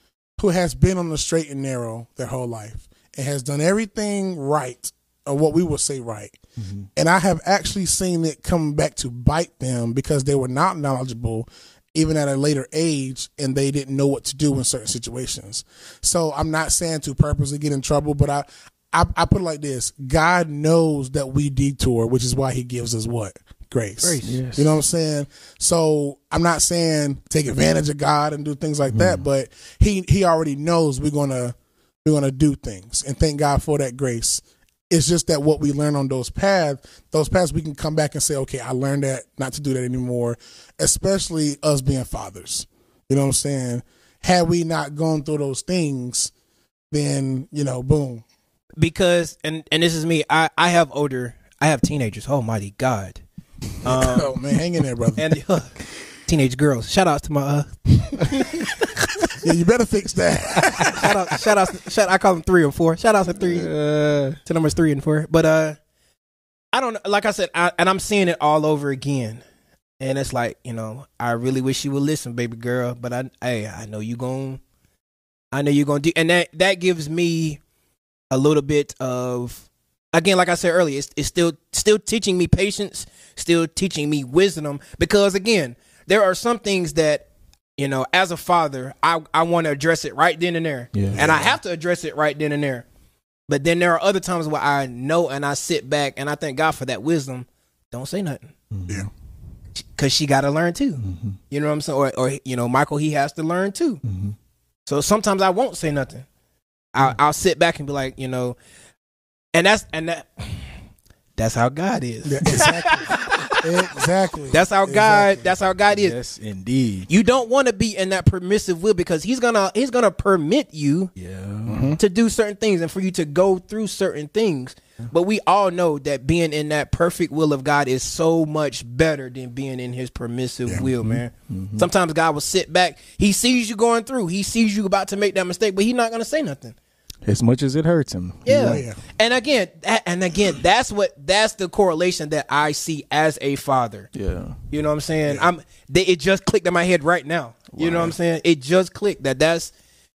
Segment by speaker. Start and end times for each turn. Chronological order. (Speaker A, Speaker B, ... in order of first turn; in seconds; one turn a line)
Speaker A: 0.4-6.4
Speaker B: 6.6-6.9
Speaker A: 7.0-46.3
Speaker C: 24.0-24.4
Speaker B: 24.2-24.8
Speaker B: 28.9-29.3
Speaker A: 46.9-48.2
Speaker C: 48.8-53.2
Speaker C: 53.8-54.3
Speaker A: 53.9-55.2
Speaker C: 55.2-58.7
Speaker A: 59.4-61.1
Speaker C: 60.9-63.7
Speaker B: 63.4-64.4
Speaker C: 64.5-65.8
Speaker C: 66.7-69.4
Speaker C: 70.0-74.6
Speaker C: 75.5-77.6
Speaker C: 78.3-92.9
Speaker B: 90.9-91.2
Speaker A: 91.1-91.5
Speaker C: 93.5-98.5
Speaker B: 98.7-99.1
Speaker C: 99.8-104.0
Speaker B: 101.0-101.4
Speaker B: 104.0-104.4
Speaker C: 104.9-106.3
Speaker C: 106.9-108.6
Speaker C: 109.5-110.7
Speaker C: 111.4-113.6
Speaker A: 112.2-115.5
Speaker C: 114.5-116.2
Speaker B: 115.9-117.1
Speaker C: 117.1-121.1
Speaker B: 121.2-121.8
Speaker A: 121.7-122.0
Speaker C: 122.0-136.8
Speaker B: 130.8-131.9
Speaker B: 137.2-138.9
Speaker C: 138.5-144.1
Speaker A: 138.6-139.0
Speaker B: 144.1-144.6
Speaker C: 144.7-149.7
Speaker B: 147.7-148.2